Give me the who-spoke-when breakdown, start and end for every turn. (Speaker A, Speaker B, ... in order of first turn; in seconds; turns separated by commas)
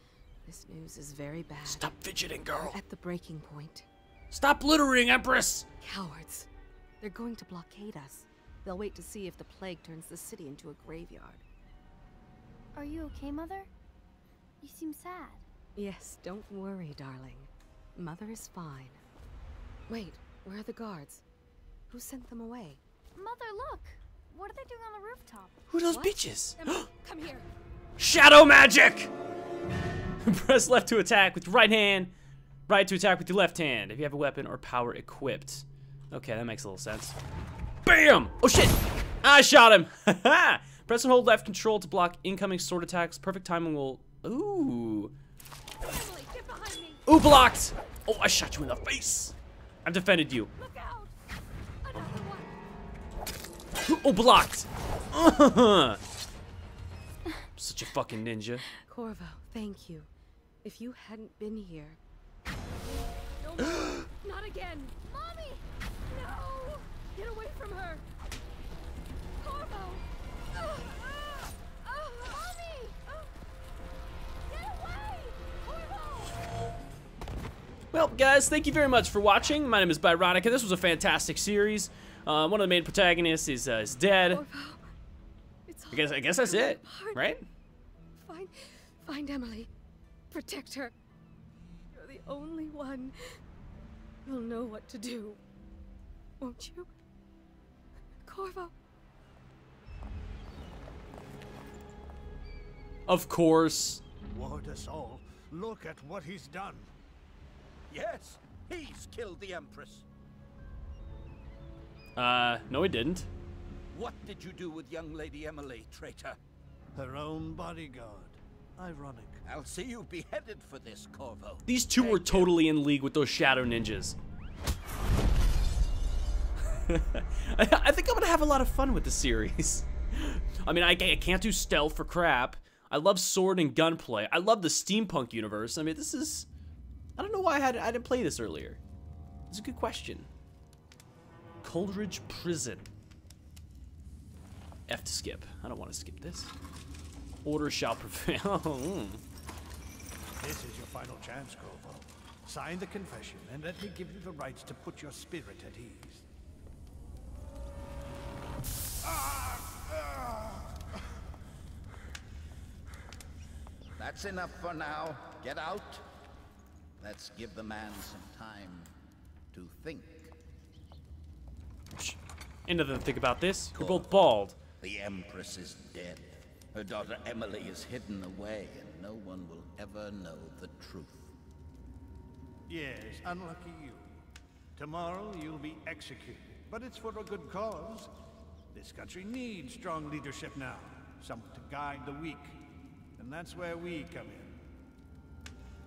Speaker A: 0.5-1.9, Speaker B: 1.6-2.8, Speaker A: 2.6-3.9, Speaker B: 4.3-5.7, Speaker A: 5.8-6.5, Speaker A: 7.0-11.4, Speaker C: 12.8-13.7, Speaker C: 14.6-15.4, Speaker A: 15.8-19.0, Speaker A: 19.9-21.2, Speaker A: 21.9-22.8, Speaker C: 23.1-25.6, Speaker B: 25.7-26.9, Speaker A: 25.8-27.5, Speaker B: 28.0-29.1, Speaker B: 30.2-32.1, Speaker B: 32.7-37.2, Speaker B: 37.9-45.1, Speaker A: 45.8-47.0, Speaker B: 47.1-49.3, Speaker B: 49.9-50.5, Speaker A: 50.6-51.1, Speaker A: 51.8-52.5, Speaker B: 53.9-56.0, Speaker B: 57.6-58.7, Speaker A: 58.9-60.1, Speaker A: 60.6-62.0, Speaker A: 63.4-68.0, Speaker A: 69.4-73.3, Speaker A: 74.5-76.3, Speaker B: 77.9-84.4, Speaker A: 84.3-84.8, Speaker A: 85.7-87.3, Speaker B: 85.9-87.5, Speaker A: 88.3-89.7, Speaker A: 90.3-91.0, Speaker A: 91.9-93.2, Speaker A: 94.2-95.4, Speaker A: 96.4-96.9, Speaker A: 98.2-98.7, Speaker B: 103.1-104.0, Speaker D: 104.3-106.9, Speaker E: 107.9-110.0, Speaker B: 112.2-113.3, Speaker E: 113.9-116.4, Speaker D: 117.0-119.4, Speaker E: 119.4-122.6, Speaker B: 121.7-124.2, Speaker B: 126.7-136.5, Speaker B: 137.2-138.8, Speaker B: 139.5-140.3, Speaker B: 141.6-142.9, Speaker B: 144.9-146.5, Speaker B: 147.4-149.2, Speaker D: 150.4-156.2, Speaker D: 159.1-159.9, Speaker E: 164.0-166.0, Speaker E: 167.0-168.9, Speaker E: 169.5-170.3, Speaker B: 172.7-174.6, Speaker E: 173.8-174.1, Speaker E: 174.8-181.3, Speaker D: 182.7-184.1, Speaker D: 184.8-188.1, Speaker D: 188.7-192.6, Speaker D: 193.2-194.6